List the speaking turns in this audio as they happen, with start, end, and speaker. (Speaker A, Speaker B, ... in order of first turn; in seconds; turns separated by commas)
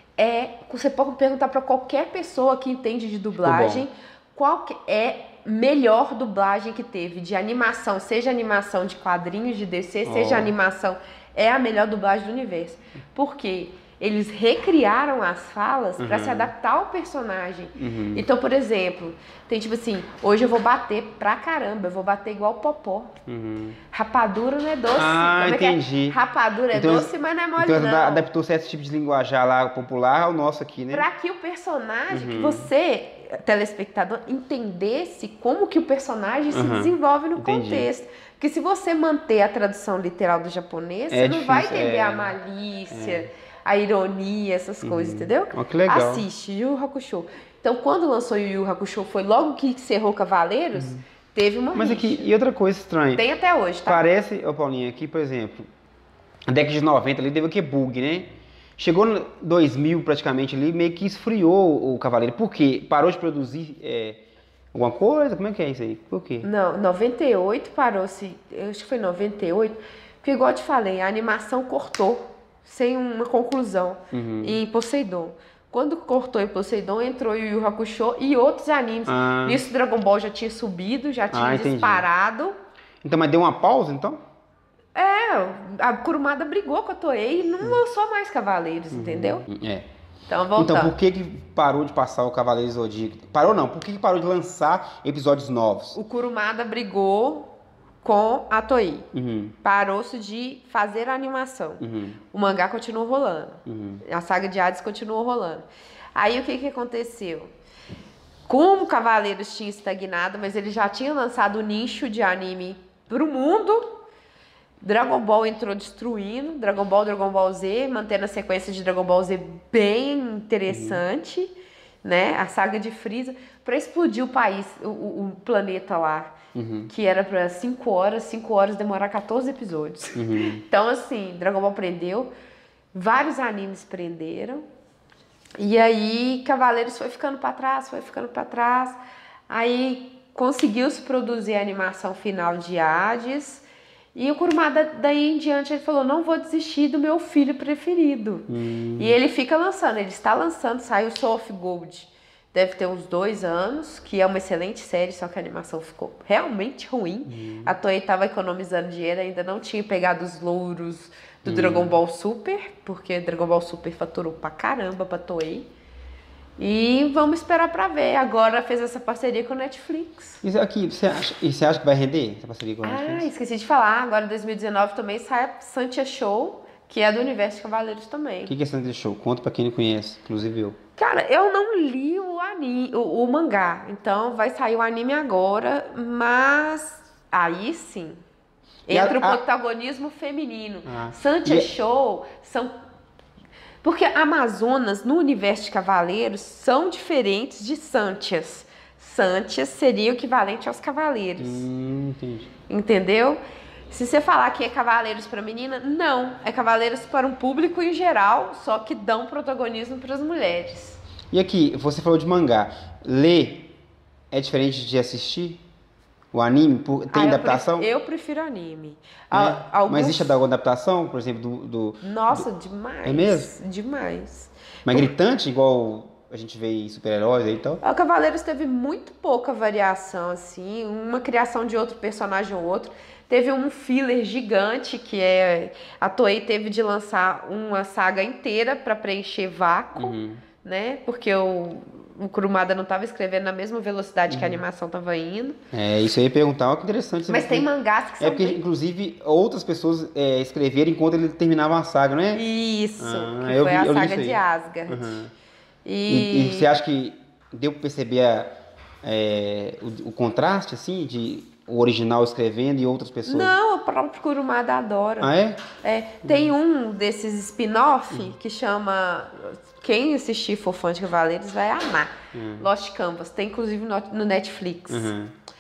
Speaker A: 0.2-23.1, Speaker B: 3.4-3.9, Speaker B: 10.1-10.5, Speaker B: 16.0-16.5, Speaker B: 17.8-18.3, Speaker B: 23.3-23.8, Speaker A: 23.9-28.3, Speaker B: 25.0-26.2, Speaker B: 26.7-31.1, Speaker A: 30.9-52.3, Speaker B: 32.1-32.7, Speaker B: 36.5-37.9, Speaker B: 41.1-42.4, Speaker B: 42.9-43.3, Speaker B: 44.8-46.2, Speaker B: 51.8-53.2, Speaker A: 53.2-54.0, Speaker B: 53.9-55.7, Speaker B: 56.5-64.2, Speaker B: 64.7-66.5, Speaker A: 66.4-82.6, Speaker B: 74.1-74.6, Speaker B: 79.1-79.6, Speaker B: 81.3-82.1, Speaker B: 83.0-84.2, Speaker A: 85.0-89.5, Speaker B: 88.9-89.9, Speaker A: 90.3-91.0, Speaker B: 90.6-96.0, Speaker A: 96.0-99.1, Speaker B: 99.1-99.6, Speaker A: 99.6-107.5, Speaker B: 101.8-102.2, Speaker B: 103.7-104.0, Speaker A: 108.5-113.8, Speaker A: 114.8-126.4, Speaker B: 120.7-121.0, Speaker B: 126.5-126.9, Speaker A: 126.9-132.3, Speaker B: 130.2-130.6, Speaker A: 132.9-134.7, Speaker A: 135.6-139.0, Speaker A: 139.5-165.7, Speaker B: 148.5-149.2, Speaker B: 157.3-157.7, Speaker B: 161.5-162.0, Speaker A: 166.6-170.4, Speaker B: 170.4-173.3, Speaker A: 172.8-178.5, Speaker B: 178.5-180.8, Speaker A: 181.0-188.2, Speaker A: 188.9-192.7, Speaker B: 188.9-189.4, Speaker B: 190.9-191.7, Speaker A: 193.8-201.7, Speaker B: 201.4-202.5, Speaker A: 202.7-203.4, Speaker A: 203.9-211.0, Speaker B: 211.3-213.7, Speaker B: 214.3-215.6, Speaker B: 216.3-217.9, Speaker A: 217.1-220.4, Speaker B: 219.3-222.5, Speaker A: 222.0-225.1, Speaker B: 223.1-223.5, Speaker B: 224.9-227.8, Speaker A: 227.8-245.6, Speaker B: 240.0-240.4, Speaker B: 244.3-244.6, Speaker B: 245.7-247.7, Speaker A: 247.3-248.6, Speaker B: 248.2-252.4, Speaker A: 252.3-255.2, Speaker B: 253.0-255.3, Speaker A: 255.8-256.7, Speaker B: 256.1-258.5, Speaker B: 259.0-263.6, Speaker A: 263.3-275.1, Speaker B: 265.2-265.6, Speaker B: 266.2-266.5, Speaker B: 272.3-272.7, Speaker B: 274.9-275.3